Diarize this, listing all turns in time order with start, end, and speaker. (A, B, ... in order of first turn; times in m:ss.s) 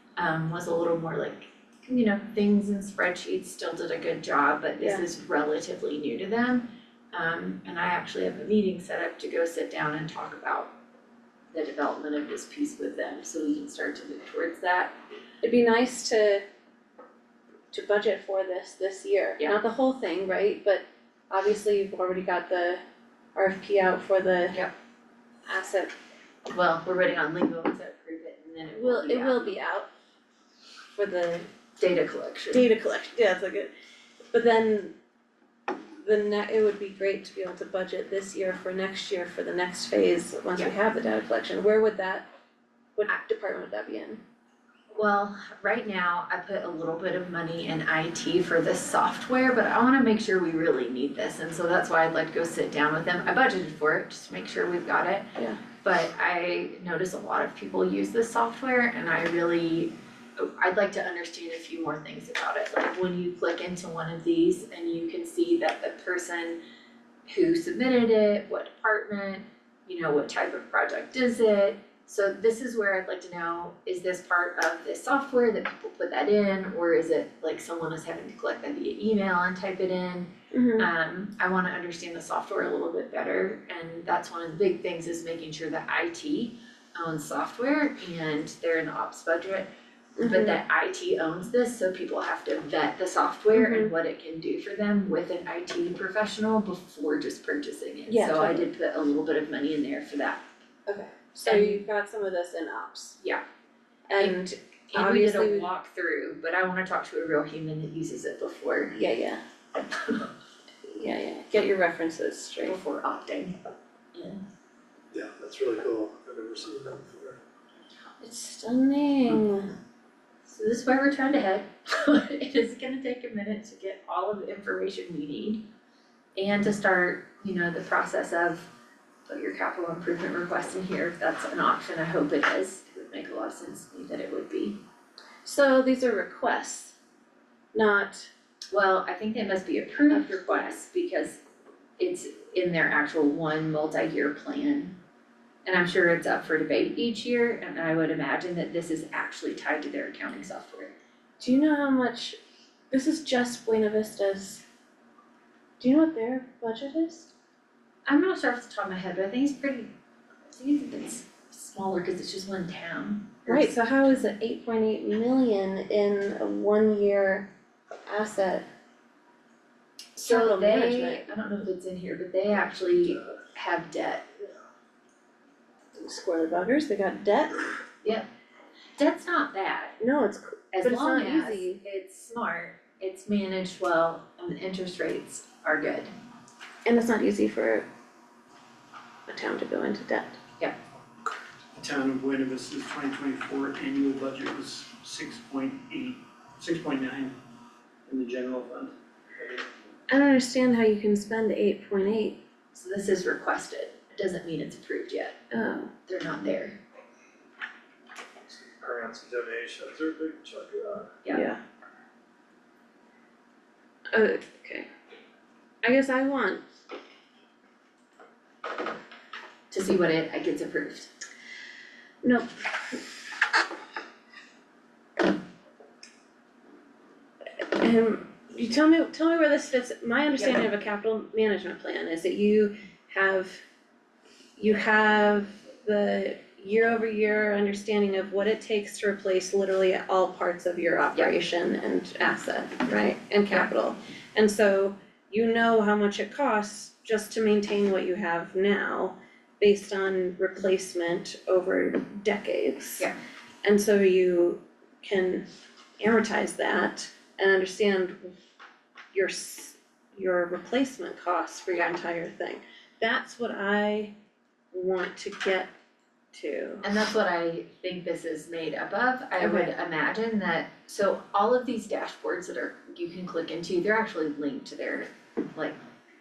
0:00.2-0:10.7 A
0:11.5-0:14.9 A
0:15.4-0:16.4 B
0:17.7-0:22.8 B
0:23.3-0:24.6 B
0:25.4-0:25.9 B
0:26.5-0:29.6 A
0:28.7-0:29.9 B
0:30.9-0:31.5 B
0:31.8-0:32.7 A
0:32.5-0:33.7 B
0:34.3-0:34.9 B
0:36.0-0:42.3 B
0:43.0-0:44.2 B
0:44.9-1:06.6 A
0:55.4-0:55.6 B
1:07.3-1:29.7 A
1:20.5-1:20.9 B
1:30.2-1:30.6 B
1:30.2-1:40.4 A
1:33.5-1:33.9 B
1:38.1-1:38.7 B
1:40.9-1:43.2 B
1:41.4-1:41.8 A
1:44.1-1:45.7 B
1:44.9-1:48.9 A
1:48.9-1:49.4 B
1:49.7-1:50.3 A
1:50.8-1:52.8 B
1:52.6-1:53.6 A
1:54.1-1:54.4 A
1:55.1-1:57.4 C
1:58.2-1:59.7 B
2:00.4-2:05.6 A
2:06.4-2:08.7 A
2:09.2-2:14.8 A
2:15.4-2:16.9 B
2:17.7-2:18.3 B
2:18.7-2:21.4 A
2:22.0-2:24.9 A
2:25.6-2:30.9 A
2:31.4-2:32.4 B
2:32.9-2:34.6 B
2:35.8-2:37.3 B
2:38.0-2:39.9 A
2:40.5-2:43.7 A
2:43.5-2:47.5 B
2:48.1-2:48.6 B
2:50.2-2:51.3 B
2:50.2-2:54.4 A
2:56.0-2:57.7 B
2:59.0-3:00.0 A
3:00.0-3:01.8 B
3:00.7-3:06.1 A
3:06.8-3:07.8 B
3:09.3-3:10.4 B
3:11.8-3:17.3 D
3:18.1-3:19.7 D
3:20.1-3:22.4 B
3:22.7-3:25.4 A
3:25.5-3:25.9 B
3:26.0-3:26.8 A
3:28.4-3:31.1 C
3:31.3-3:31.6 B
3:34.1-3:34.9 B
3:35.8-3:36.6 B
3:39.7-3:41.1 A
3:42.2-3:43.0 B
3:47.8-3:53.6 B
3:54.6-4:13.1 B
4:13.6-4:15.4 B
4:16.0-4:18.4 B
4:19.1-4:24.1 B
4:24.7-4:25.7 B
4:26.3-4:26.8 B
4:26.8-4:35.8 A
4:29.4-4:29.7 B